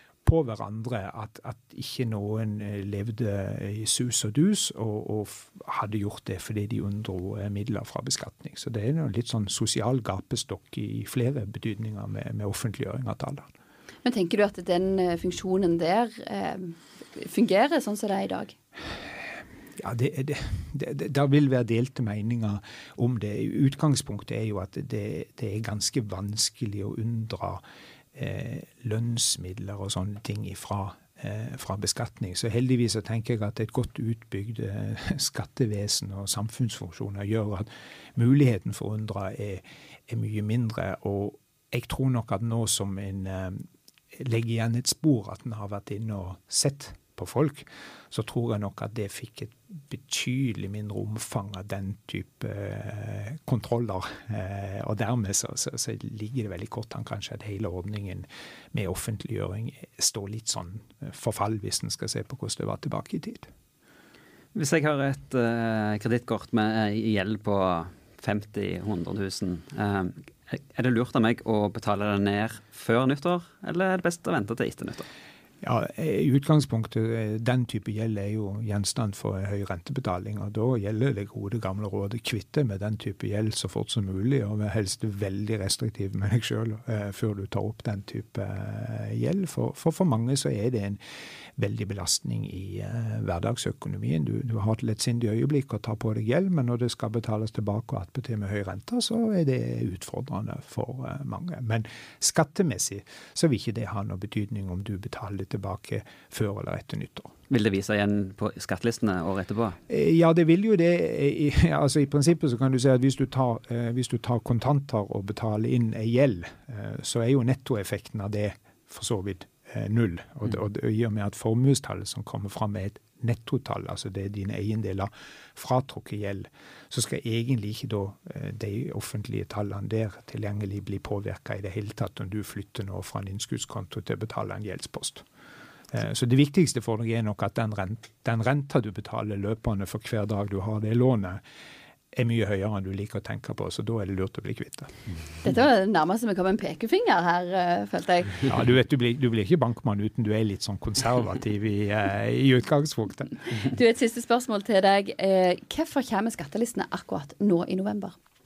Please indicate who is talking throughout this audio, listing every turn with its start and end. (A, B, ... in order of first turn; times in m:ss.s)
0:00.2-0:13.5 A
0:14.0-0:18.5 B
0:19.8-0:27.6 A
0:28.1-1:03.5 A
1:04.5-1:15.1 C
1:15.6-1:31.0 A
1:31.6-1:47.3 A
1:47.5-1:49.8 C
1:49.9-2:15.2 A
2:15.9-2:21.4 A
2:22.1-2:24.9 A
2:25.4-2:28.4 B
2:28.4-2:33.6 A
2:33.7-2:38.1 B